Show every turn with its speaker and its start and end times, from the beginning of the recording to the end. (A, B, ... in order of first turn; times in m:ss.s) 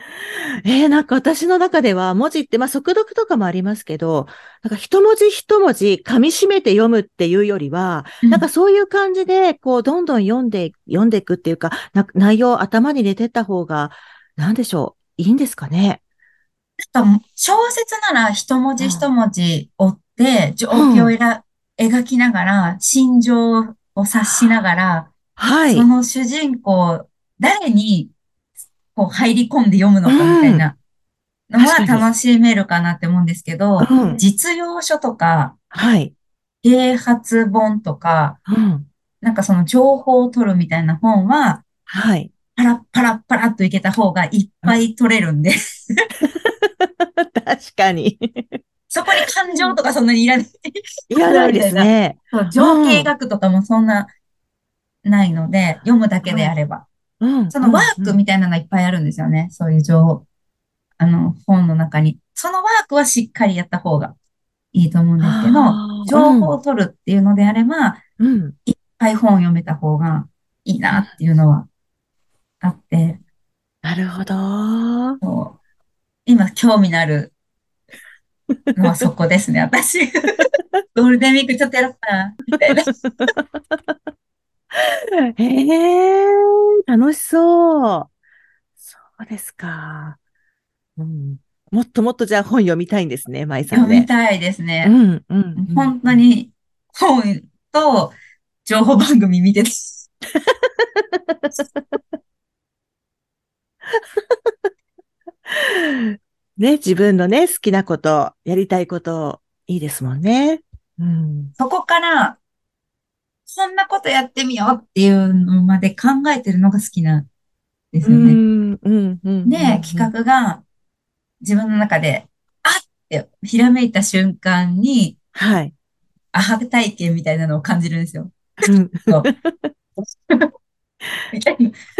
0:00.2-0:16.0 A
0:08.2-0:08.5 B
0:16.9-0:25.1 B
0:18.8-0:19.1 A
0:20.7-0:21.2 A
0:24.2-0:24.6 A
0:25.4-0:25.9 A
0:25.7-0:28.1 B
0:29.0-0:30.8 B
0:30.0-0:30.7 A
0:31.5-0:35.6 B
0:31.6-0:32.1 A
0:33.8-0:34.3 A
0:35.7-0:36.1 A
0:36.6-0:38.4 B
0:38.5-0:38.9 A
0:39.2-0:41.6 B
0:41.9-0:42.3 A
0:42.6-0:45.9 B
0:46.4-0:48.6 A
0:48.9-0:54.1 B
0:49.2-0:49.8 A
0:51.1-0:53.1 A
0:55.0-0:56.9 B
0:56.2-0:56.5 A
0:57.2-0:58.2 A
0:57.5-1:00.2 B
1:01.0-1:04.2 B
1:04.7-1:08.0 B
1:05.2-1:06.6 A
1:08.2-1:08.6 A
1:08.7-1:11.7 B
1:12.6-1:13.2 B
1:13.8-1:15.2 A
1:15.2-1:15.6 B
1:16.3-1:17.3 B
1:18.8-1:20.3 B
1:21.0-1:22.9 B
1:22.6-1:23.9 A
1:24.7-1:28.1 A
1:28.9-1:30.2 A
1:31.0-1:34.1 A
1:33.7-1:35.0 B
1:34.8-1:36.2 A
1:35.6-1:40.1 B
1:40.5-1:42.0 A
1:43.9-1:44.6 A
1:45.5-1:51.5 A
1:51.6-1:52.4 B
1:53.5-1:57.3 B
1:57.9-1:58.4 B
1:58.0-2:00.1 A
1:59.4-2:00.6 B
2:01.4-2:05.2 B
2:05.4-2:05.7 A
2:06.3-2:08.3 B
2:08.6-2:09.7 A
2:09.1-2:09.3 B
2:10.0-2:10.5 B
2:11.3-2:11.8 B